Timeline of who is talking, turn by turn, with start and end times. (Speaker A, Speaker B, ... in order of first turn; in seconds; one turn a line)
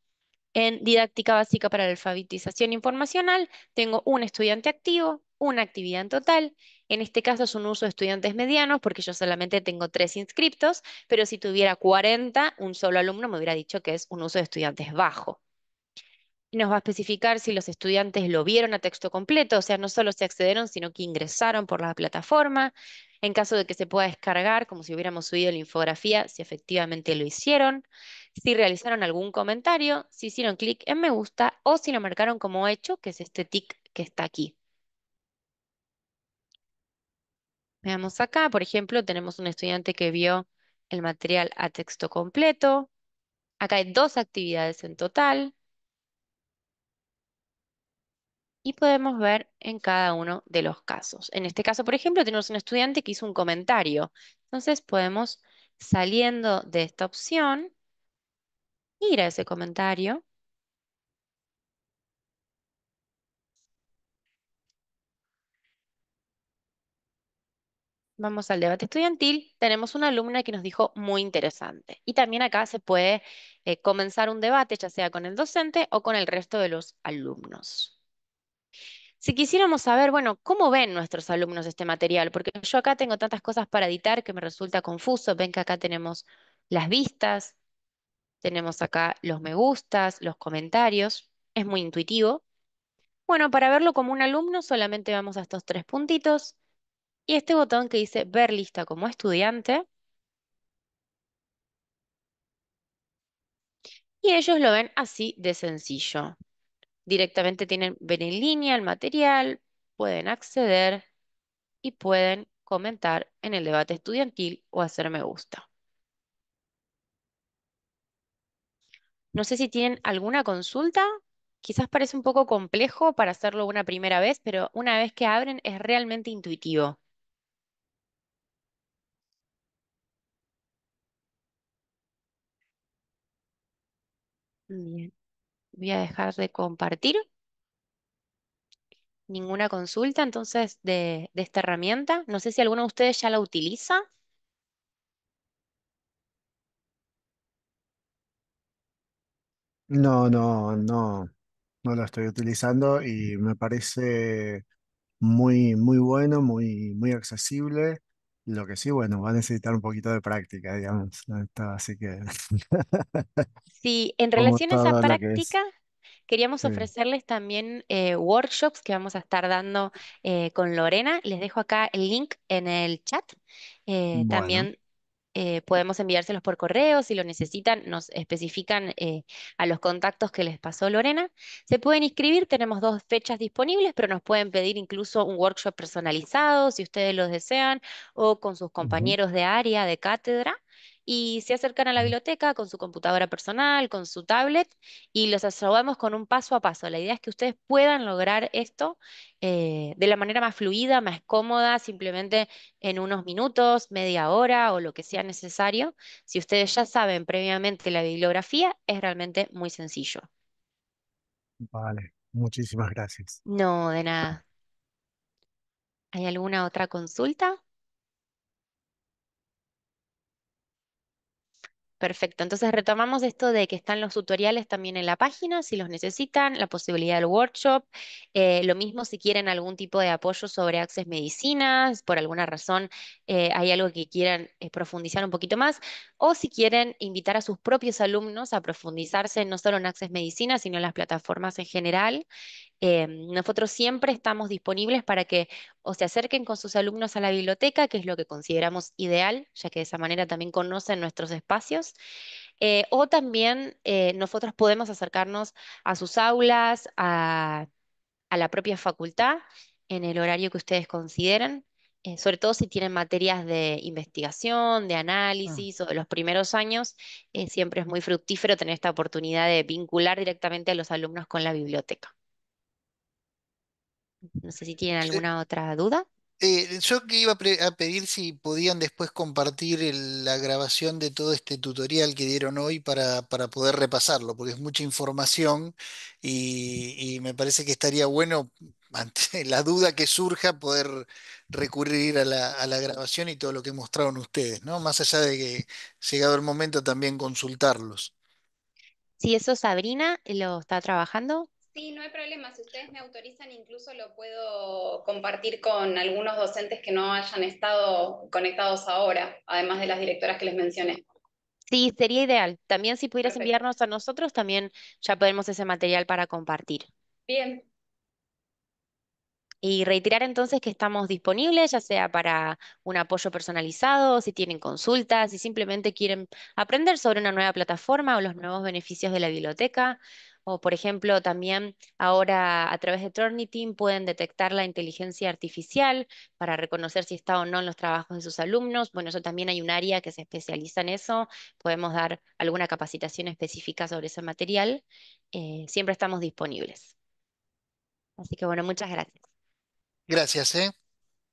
Speaker A: 0.5-15.4
Speaker A: 16.5-34.5
Speaker A: 37.8-42.9
Speaker A: 43.6-45.5
Speaker A: 48.6-57.7
Speaker A: 59.0-60.2
Speaker A: 68.2-77.9
Speaker A: 79.2-87.5
Speaker A: 88.4-92.4
Speaker A: 93.3-96.5
Speaker A: 97.3-99.8
Speaker A: 104.2-106.3
Speaker A: 107.0-111.0
Speaker A: 111.8-115.7
Speaker A: 119.3-121.1
Speaker A: 121.6-127.0
Speaker A: 134.7-135.1
Speaker A: 135.7-137.2
Speaker A: 139.3-144.0
Speaker B: 149.9-151.3
Speaker B: 151.8-154.6
Speaker B: 155.2-163.4
Speaker A: 163.8-165.7
Speaker B: 164.4-165.5
Speaker A: 166.3-173.4
Speaker B: 166.6-166.9
Speaker A: 173.9-174.8
Speaker B: 174.1-174.7
Speaker A: 175.3-210.3
Speaker B: 188.8-189.1
Speaker B: 211.6-213.4
Speaker A: 213.4-214.4
Speaker A: 216.1-217.6
Speaker A: 222.0-242.2
Speaker A: 242.8-251.9
Speaker A: 252.6-257.7
Speaker A: 258.3-272.1
Speaker A: 274.3-276.1
Speaker C: 276.4-298.1
Speaker A: 299.2-301.5
Speaker D: 301.7-311.0
Speaker A: 311.7-316.9
Speaker D: 317.3-317.6
Speaker A: 319.6-346.9
Speaker A: 348.2-349.2
Speaker C: 350.1-350.7